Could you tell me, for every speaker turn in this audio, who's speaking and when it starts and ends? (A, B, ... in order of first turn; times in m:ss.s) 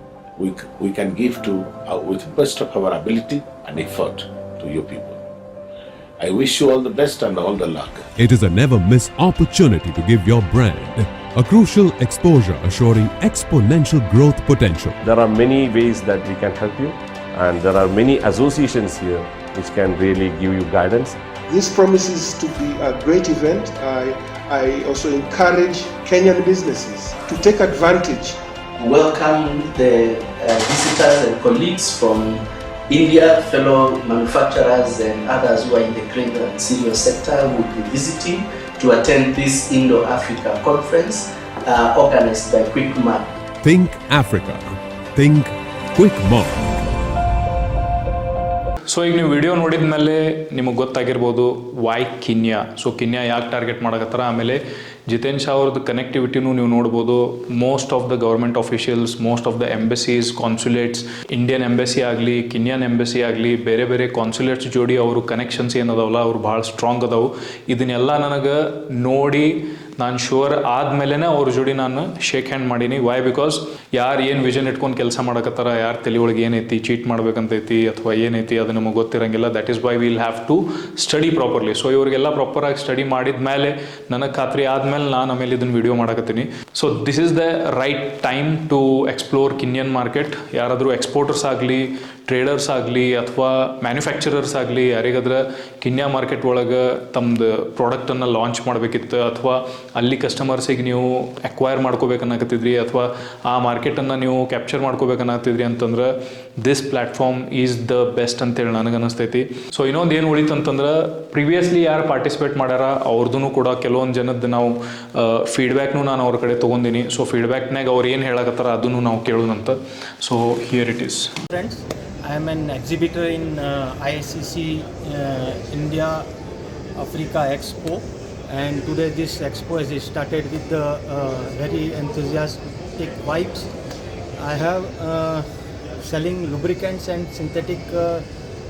0:00.4-0:05.2 A
0:06.2-0:08.1 A
0:08.2-0:15.0 B
0:15.0-0:21.2 C
0:21.5-0:28.4 D
0:28.8-0:43.3 E
0:43.6-0:46.8 B
0:48.9-2:01.4 F
2:01.5-2:06.3 G
2:07.0-2:13.7 G
2:14.4-2:15.5 G
2:16.0-2:18.2 G